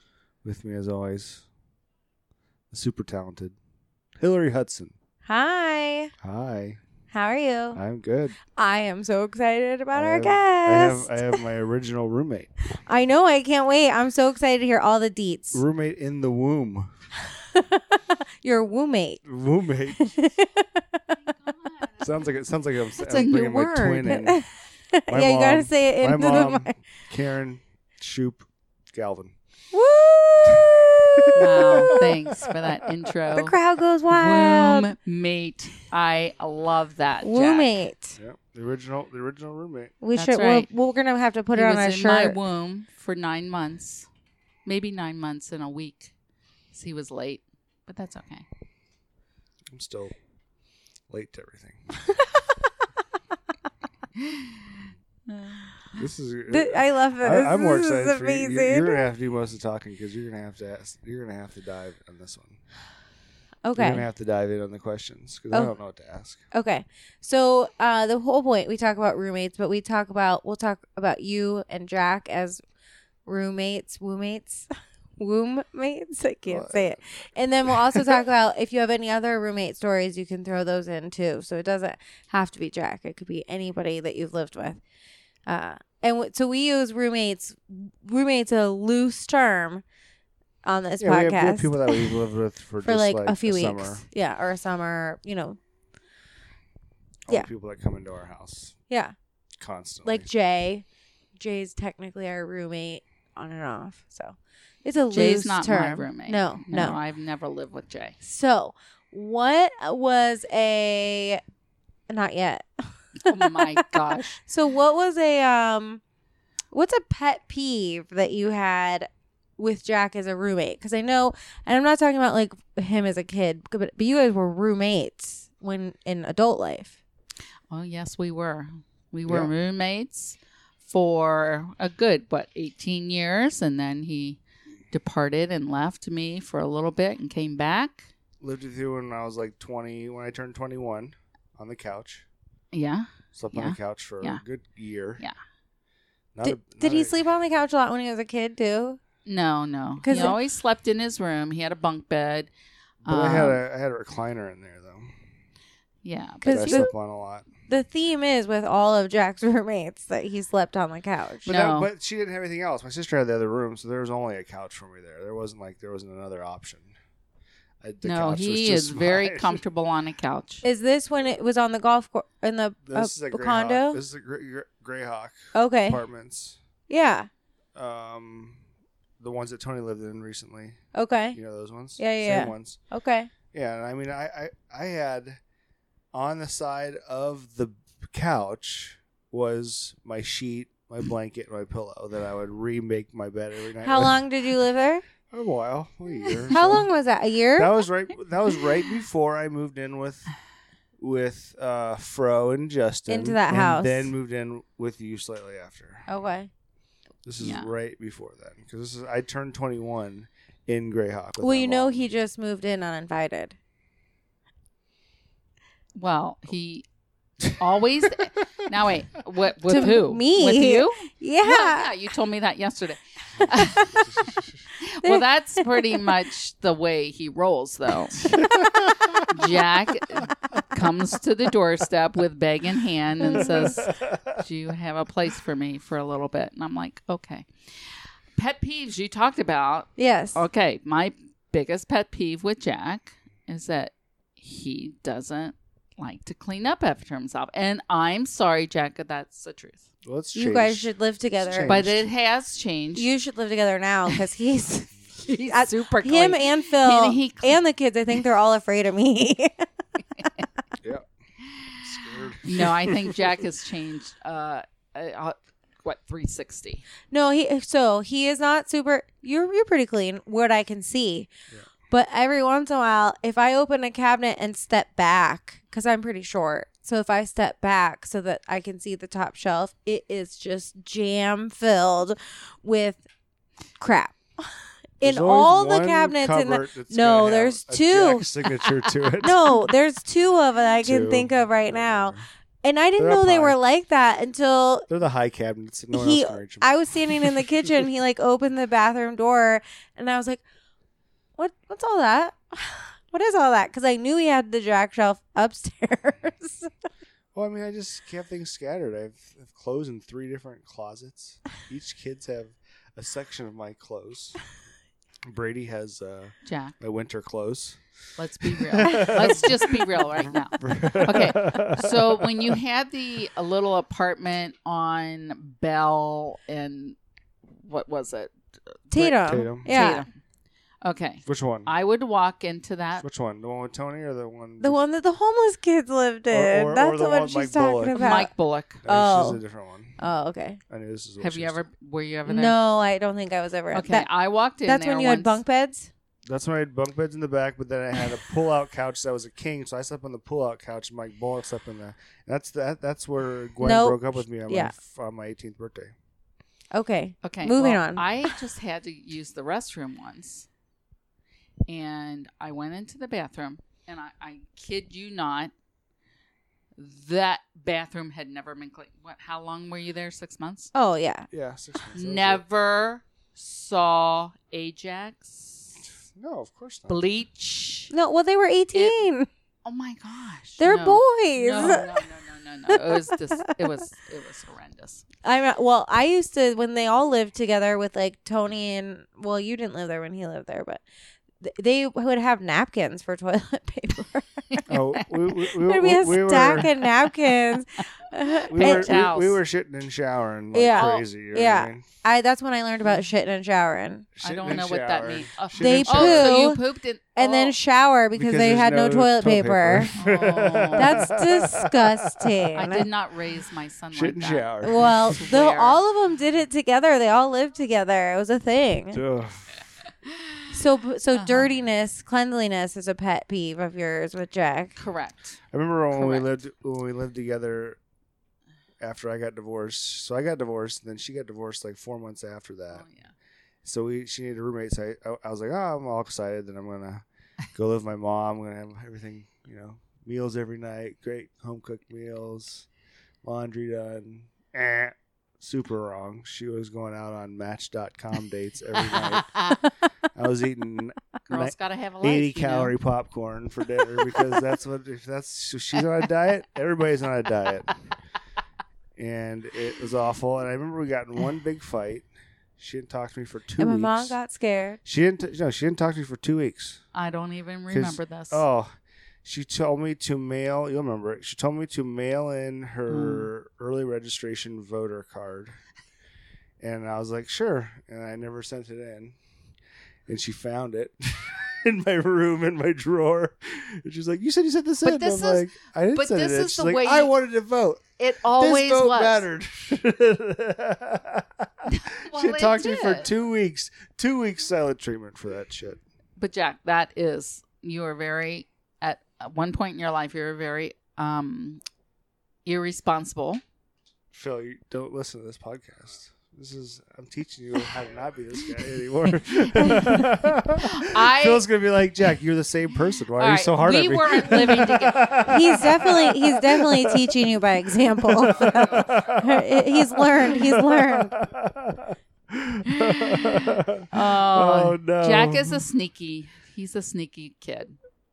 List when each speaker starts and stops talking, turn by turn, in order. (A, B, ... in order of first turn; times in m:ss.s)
0:00.4-0:01.4 A
0:02.7-0:03.6 A
0:04.2-0:04.9 A
0:05.2-0:06.1 B
0:06.2-0:06.8 A
0:07.1-0:07.8 B
0:07.7-0:08.4 A
0:08.6-0:11.4 B
0:09.9-0:12.5 A
0:12.8-0:15.6 B
0:15.5-0:16.9 A
0:17.4-0:19.2 B
0:19.2-0:20.1 A
0:20.0-0:21.3 B
0:22.0-0:24.4 A
0:23.0-0:24.2 C
0:24.0-0:26.7 B
0:25.1-0:29.3 A
0:29.7-0:32.0 B
0:30.4-0:32.6 A
0:31.4-0:33.5 C
0:33.3-0:34.9 B
0:34.1-0:37.7 C
0:37.2-0:38.2 B
0:38.2-0:39.9 A
0:40.0-0:42.4 B
0:40.2-0:40.7 C
0:41.5-0:44.1 C
0:44.6-0:46.1 C
0:46.7-0:48.4 C
0:49.7-0:50.1 A
0:51.1-0:51.9 A
0:52.2-0:52.6 B
0:54.2-0:56.0 C
0:56.0-1:02.6 A
0:56.5-0:59.0 B
1:03.6-1:04.0 B
1:03.8-1:06.4 A
1:06.5-1:12.6 B
1:13.2-1:24.8 B
1:16.5-1:18.2 A
1:25.5-1:29.8 B
1:30.6-1:32.2 B
1:31.0-1:34.0 A
1:32.8-1:35.6 B
1:37.3-1:38.8 A
1:39.6-1:40.3 A
1:40.0-1:40.8 B
1:41.4-1:47.0 B
1:45.1-1:48.2 C
1:48.2-1:51.4 B
1:52.1-1:56.0 B
1:53.2-1:54.4 C
1:56.7-2:07.0 B
2:07.7-2:14.4 C
2:09.3-2:09.5 A
2:14.9-2:18.1 C
2:18.4-2:22.2 A
2:22.7-2:24.4 C
2:23.3-2:25.2 A
2:26.3-2:27.2 A
2:26.4-2:29.0 B
2:29.2-2:32.5 C
2:30.0-2:30.4 B
2:33.0-2:33.6 C
2:33.0-2:35.1 A
2:36.0-2:36.9 C
2:36.4-2:36.9 B
2:36.4-2:37.4 A
2:37.7-2:41.5 B
2:41.4-2:46.9 A
2:41.4-2:41.9 C
2:47.8-2:49.6 A
2:48.0-2:50.6 C
2:50.6-2:54.0 B
2:52.8-2:56.6 A
2:55.5-2:56.0 B
2:56.9-2:57.3 B
2:57.7-2:58.6 A
2:59.2-3:00.8 A
3:00.9-3:01.4 B
3:01.3-3:02.8 A
3:02.0-3:03.3 B
3:03.5-3:05.4 A
3:06.1-3:14.2 A
3:13.8-3:15.0 B
3:15.3-3:16.9 A
3:16.5-3:17.7 B
3:17.6-3:20.3 A
3:21.0-3:26.1 A
3:23.1-3:24.1 B
3:26.1-3:26.5 B
3:27.2-3:32.0 A
3:27.4-3:27.7 C
3:31.4-3:33.6 B
3:35.9-3:36.8 C
3:37.4-3:48.3 C
3:39.6-3:41.9 B
3:43.6-3:44.1 B
3:45.0-3:45.9 B
3:48.3-3:49.2 A
3:49.1-3:57.5 C
3:53.2-3:53.8 B
3:53.3-3:54.4 A
3:58.4-4:09.9 C
4:00.0-4:00.4 B
4:10.0-4:12.0 A
4:10.3-4:11.8 B
4:11.6-4:13.1 C
4:13.0-4:19.6 B
4:15.2-4:17.5 C
4:21.4-4:26.8 C
4:21.8-4:23.3 A
4:27.1-4:31.3 B
4:31.9-4:43.0 B
4:43.8-4:44.5 B
4:45.0-4:48.3 B
4:45.0-4:49.6 A
4:49.2-4:54.9 B
4:50.8-4:52.2 A
4:53.0-4:53.6 A
4:54.9-4:57.5 A
4:55.9-5:00.4 B
5:01.4-5:06.7 B
5:07.3-5:14.4 A
5:15.3-5:17.8 A
5:16.4-5:16.7 C
5:18.2-5:27.0 C
5:18.4-5:20.1 A
5:20.6-5:22.6 A
5:27.6-5:28.3 C
5:28.9-5:30.0 B
5:28.9-5:29.7 A
5:29.6-5:30.1 C
5:30.8-5:33.0 C
5:31.2-5:31.7 A
5:33.0-5:34.8 A
5:34.6-5:38.3 B
5:36.3-5:38.2 A
5:37.9-5:38.8 C
5:38.8-5:40.0 A
5:38.8-5:39.4 B
5:40.0-5:40.6 B
5:40.7-5:41.6 A
5:41.2-5:42.6 C
5:42.2-5:44.1 B
5:43.7-5:45.4 C
5:44.6-5:45.9 B
5:46.3-5:55.9 A
5:53.6-5:54.7 B
5:56.7-5:58.2 B
5:57.2-6:00.5 C
6:01.7-6:05.5 C
6:06.8-6:10.7 C
6:10.7-6:11.3 B
6:11.3-6:12.4 A
6:11.9-6:15.8 C
6:16.2-6:17.0 A
6:16.9-6:17.9 C
6:17.9-6:19.3 B
6:19.6-6:25.0 C
6:20.6-6:22.0 B
6:22.7-6:23.5 B
6:25.2-6:30.8 B
6:31.4-6:34.6 B
6:34.5-6:35.1 C
6:34.7-6:36.7 A
6:35.6-6:39.0 B
6:38.4-6:39.4 C
6:38.5-6:41.8 A
6:40.5-6:44.1 B
6:44.2-6:46.4 A
6:44.2-6:47.5 C
6:45.6-6:46.6 B
6:47.2-6:49.9 B
6:48.1-6:52.5 A
6:49.9-6:51.1 C
6:50.8-6:52.9 B
6:52.6-6:55.8 C
6:53.9-6:55.1 A
6:54.6-6:59.0 B
6:58.9-6:59.5 A
7:00.1-7:00.4 C
7:00.5-7:04.7 B
7:01.1-7:01.5 C
7:04.8-7:05.4 C
7:05.5-7:07.8 A
7:05.9-7:06.3 C
7:08.8-7:12.8 A
7:12.7-7:13.1 C
7:13.6-7:22.7 A
7:23.2-7:29.4 A
7:29.0-7:29.6 C
7:30.1-7:37.7 A
7:31.3-7:32.7 C
7:39.0-7:42.1 A
7:42.6-7:44.2 A
7:43.6-7:44.8 B
7:44.8-7:46.8 A
7:46.9-7:48.4 C
7:47.7-7:48.7 A
7:49.2-7:55.6 A
7:52.9-7:53.3 C
7:56.6-7:59.2 A
8:00.1-8:15.8 A
8:04.8-8:07.1 C
8:08.0-8:09.2 C
8:11.7-8:13.1 C
8:16.2-8:21.6 C
8:22.4-8:23.4 C
8:24.1-8:37.2 A
8:29.3-8:31.4 C
8:33.2-8:35.2 C
8:35.2-8:41.1 B
8:38.0-8:45.6 A
8:42.7-8:47.8 C